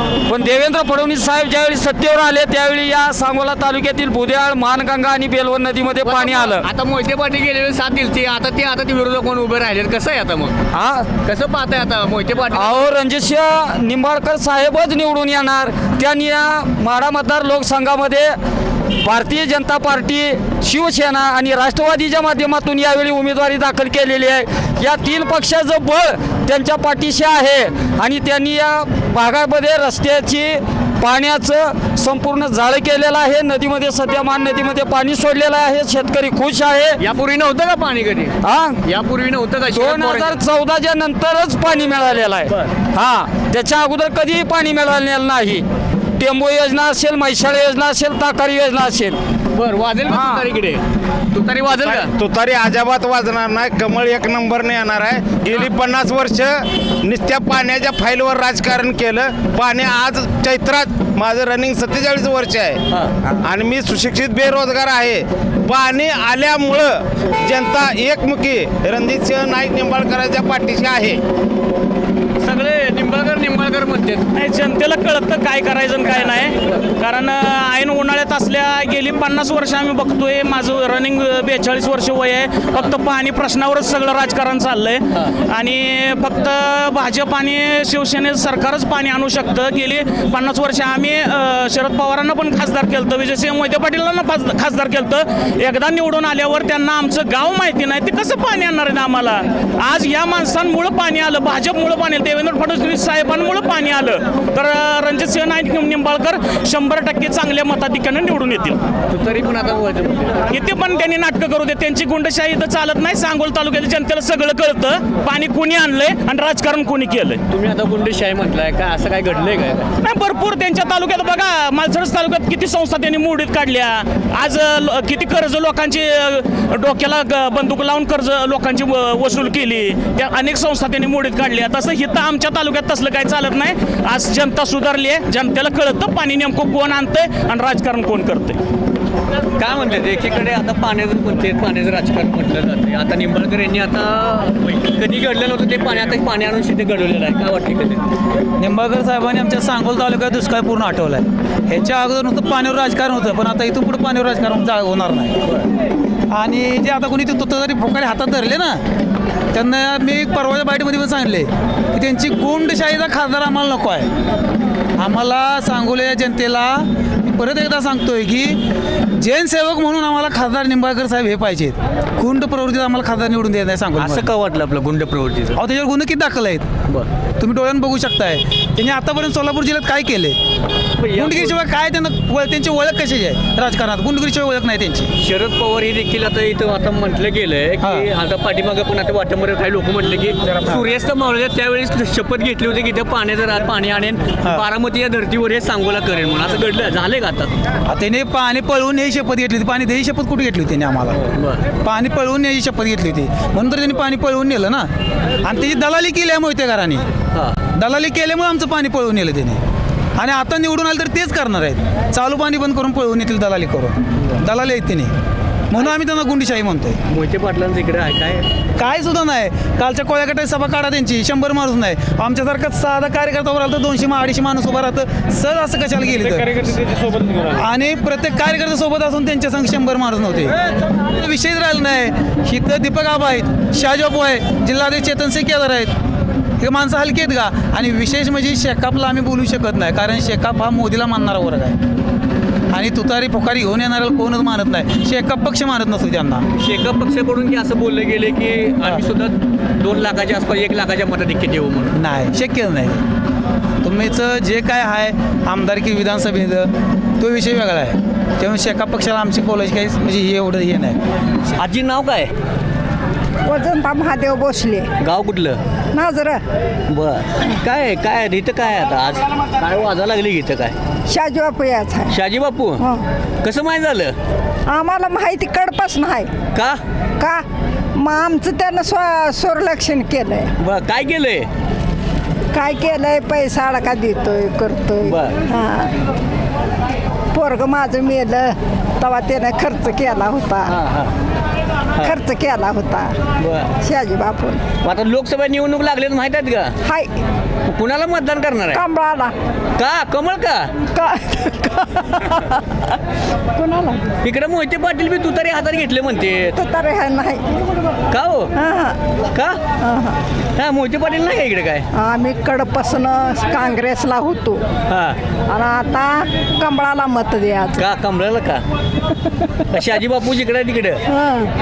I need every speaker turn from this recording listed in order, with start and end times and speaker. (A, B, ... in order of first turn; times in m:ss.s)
0:00.2-0:06.6 A
0:06.0-0:10.6 B
0:10.7-0:11.1 A
0:11.2-0:12.8 B
0:12.5-0:18.4 A
0:19.0-0:37.0 A
0:37.0-0:40.4 B
0:38.4-0:38.8 A
0:39.7-0:45.7 A
0:42.5-0:42.7 B
0:46.2-0:49.2 A
0:49.5-0:50.8 B
0:50.1-0:50.4 A
0:51.3-0:52.1 B
0:51.8-1:02.8 C
1:02.9-1:03.2 B
1:03.4-1:11.2 C
1:12.4-1:14.3 B
1:14.3-1:48.8 D
1:49.1-1:50.4 B
1:50.5-1:57.4 D
1:57.5-1:59.9 B
2:00.0-2:18.6 D
2:19.6-2:28.0 B
2:28.6-2:35.4 E
2:36.3-2:38.8 E
2:39.5-2:44.1 E
2:45.0-2:48.6 E
2:49.2-2:54.3 E
2:54.0-2:55.6 B
2:55.6-2:56.7 E
2:57.4-3:00.4 E
3:01.0-3:01.6 B
3:01.2-3:05.1 E
3:05.2-3:17.5 B
3:07.8-3:08.1 E
3:17.9-3:21.2 E
3:21.2-3:21.6 B
3:21.8-3:24.9 E
3:25.4-3:27.0 E
3:27.8-3:29.6 E
3:30.2-3:35.1 E
3:35.7-3:37.0 E
3:37.1-3:38.5 B
3:38.8-3:50.5 E
3:51.1-3:55.9 E
3:56.6-4:01.8 E
4:02.7-4:06.5 E
4:06.6-4:12.0 B
4:11.9-4:13.0 E
4:13.8-4:21.0 E
4:21.6-4:22.3 B
4:23.5-4:24.9 F
4:25.0-4:25.6 B
4:25.9-4:26.4 F
4:26.9-4:30.8 B
4:31.1-4:32.1 F
4:32.1-4:32.8 B
4:33.4-4:34.1 B
4:34.7-4:36.3 F
4:38.0-4:40.5 F
4:40.6-4:41.5 B
4:42.5-4:45.9 F
4:45.0-4:45.4 B
4:47.3-4:50.7 F
4:50.7-4:51.1 B
4:52.0-4:53.2 F
4:53.4-4:53.7 B
4:53.8-4:54.6 F
4:54.8-4:56.8 B
4:56.8-4:57.1 F
4:57.7-4:58.8 B
4:58.7-4:59.3 F
4:59.8-5:00.7 B
5:01.0-5:02.8 F
5:03.6-5:04.0 F
5:04.2-5:06.6 B
5:06.6-5:07.5 F
5:08.1-5:08.5 B
5:08.6-5:09.0 F
5:09.3-5:09.6 B
5:09.8-5:10.2 F
5:10.6-5:11.9 B
5:12.0-5:14.6 F
5:14.9-5:15.2 B
5:15.5-5:17.8 F
5:17.8-5:18.6 B
5:19.7-5:21.0 B
5:21.1-5:21.5 F